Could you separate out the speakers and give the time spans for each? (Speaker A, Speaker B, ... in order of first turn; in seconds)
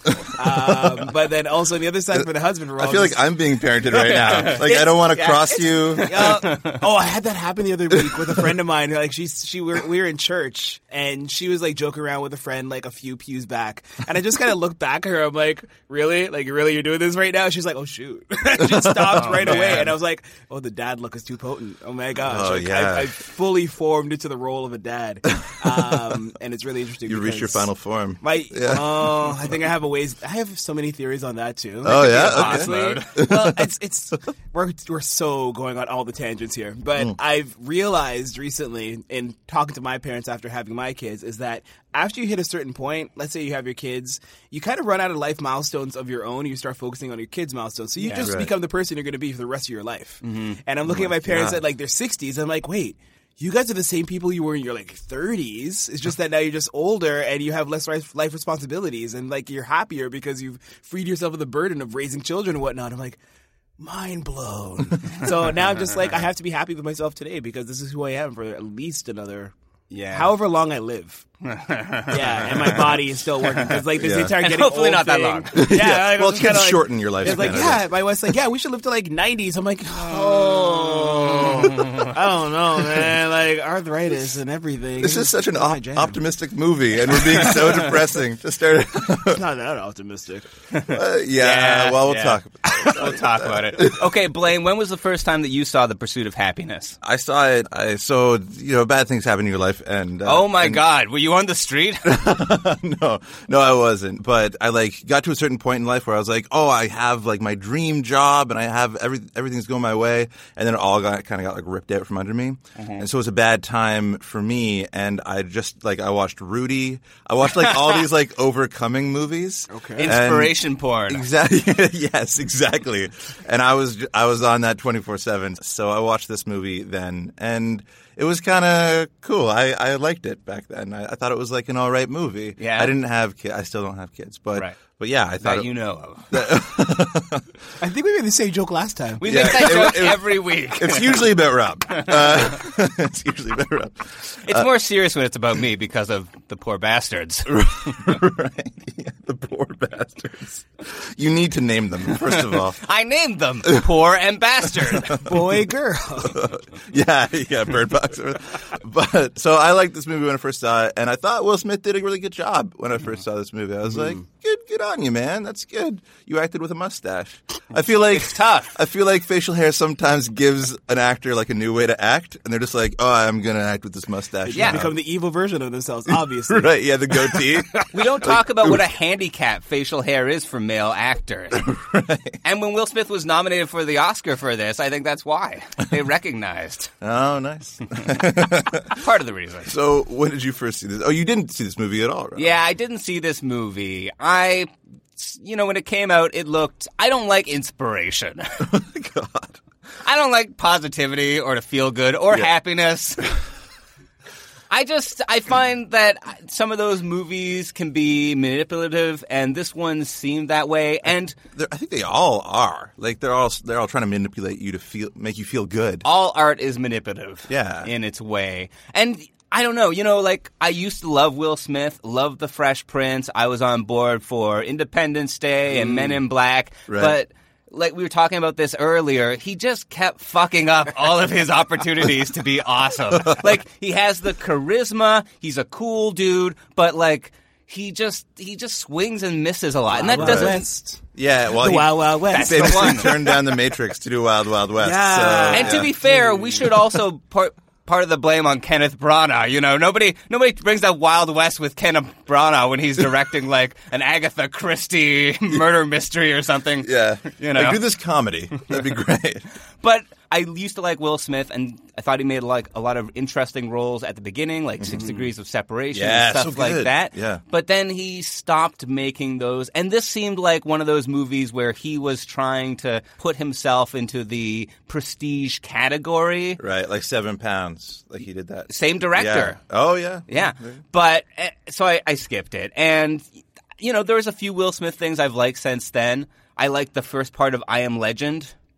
Speaker A: 0.2-3.3, 4.4-27.7, 28.2-63.2, 63.8-69.5, 70.1-71.2, 72.1-86.2, 87.3-87.8, 89.2-90.5, 119.7-120.1, 137.8-139.2, 155.2-156.4, 163.9-164.2, 174.4-177.8, 239.9-243.3, 244.8-246.3
Speaker B: 0.6-0.9, 2.8-6.1, 18.6-19.9, 22.2-23.1, 25.4-25.9, 27.1-29.5, 31.8-33.5, 48.2-48.5, 50.9-51.6, 74.0-74.3, 75.5-77.9, 85.0-89.4, 90.9-94.0, 97.0-100.8, 102.0-135.7, 136.3-137.5, 139.2-144.7, 147.4-152.8, 155.0-155.3, 156.2-174.9, 176.5-178.7, 181.6-182.4, 187.0-188.9, 189.6-192.5, 198.6-199.6, 211.5-216.1, 217.5-217.9, 226.9-227.2, 240.2-240.6, 241.1-245.9, 256.8-259.4, 265.9-267.4, 276.6-280.8
Speaker C: 3.9-4.6, 6.0-6.8, 19.1-19.9, 31.9-33.2, 48.0-48.3, 50.2-50.6, 69.9-70.3, 71.4-73.0, 73.6-75.5, 80.1-82.0, 90.7-97.0, 100.2-102.0, 112.8-113.0, 120.0-121.2, 132.6-132.9, 135.4-136.3, 139.2-141.3, 142.0-142.4, 144.5-148.1, 152.2-155.2, 168.1-168.7, 174.6-174.8, 177.9-181.7, 182.4-186.9, 188.8-189.7, 192.3-198.6, 200.0-203.3, 204.7-211.4, 216.0-240.6, 242.3-243.1, 245.5-257.8, 259.8-276.6, 278.7-279.6, 280.3-288.5